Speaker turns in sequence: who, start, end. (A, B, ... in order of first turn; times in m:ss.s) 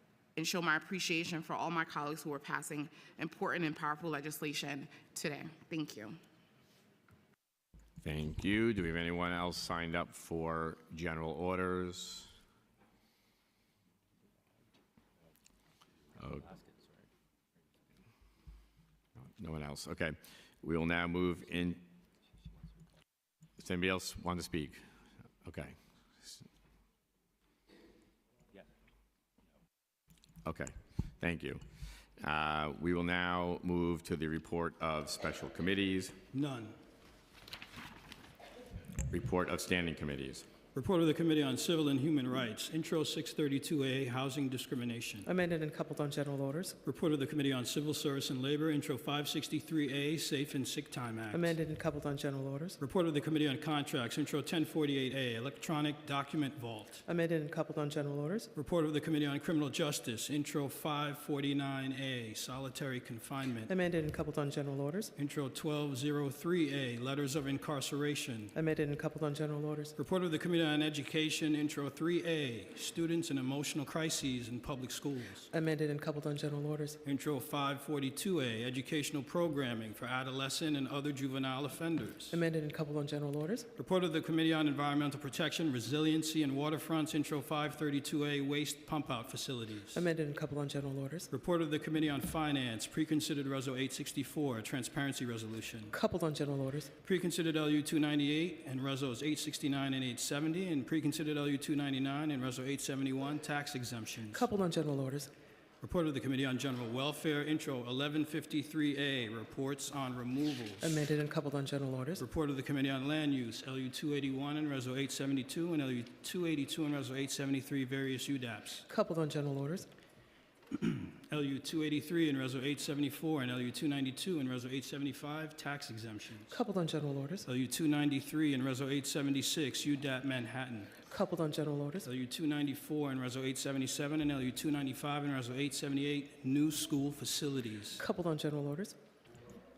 0:00.4-0:06.2 A
0:08.0-0:12.3 B
0:16.2-0:16.5 B
0:19.4-0:21.8 B
0:23.6-0:24.8 B
0:25.4-0:26.3 B
0:30.4-0:31.6 B
0:32.2-0:36.2 B
0:36.3-0:36.8 C
0:39.1-0:40.5 B
0:40.7-0:45.3 C
0:45.2-0:46.8 D
0:46.8-0:51.6 C
0:51.3-0:52.8 D
0:52.8-0:57.0 C
0:57.0-0:58.5 D
0:58.5-1:03.7 C
1:03.6-1:05.1 D
1:05.2-1:08.5 C
1:08.5-1:09.9 D
1:10.0-1:15.5 C
1:15.5-1:17.0 D
1:17.0-1:22.4 C
1:22.3-1:23.7 D
1:23.8-1:30.0 C
1:29.9-1:31.3 D
1:31.3-1:35.9 C
1:35.9-1:36.9 D
1:37.0-1:44.4 C
1:44.3-1:45.3 D
1:45.8-1:51.0 C
1:50.8-1:52.2 D
1:52.2-1:58.8 C
1:58.9-1:59.9 D
2:00.8-2:06.6 C
2:06.5-2:07.4 D
2:07.4-2:10.9 C
2:11.1-2:12.1 D
2:12.0-2:18.0 C
2:18.0-2:18.9 D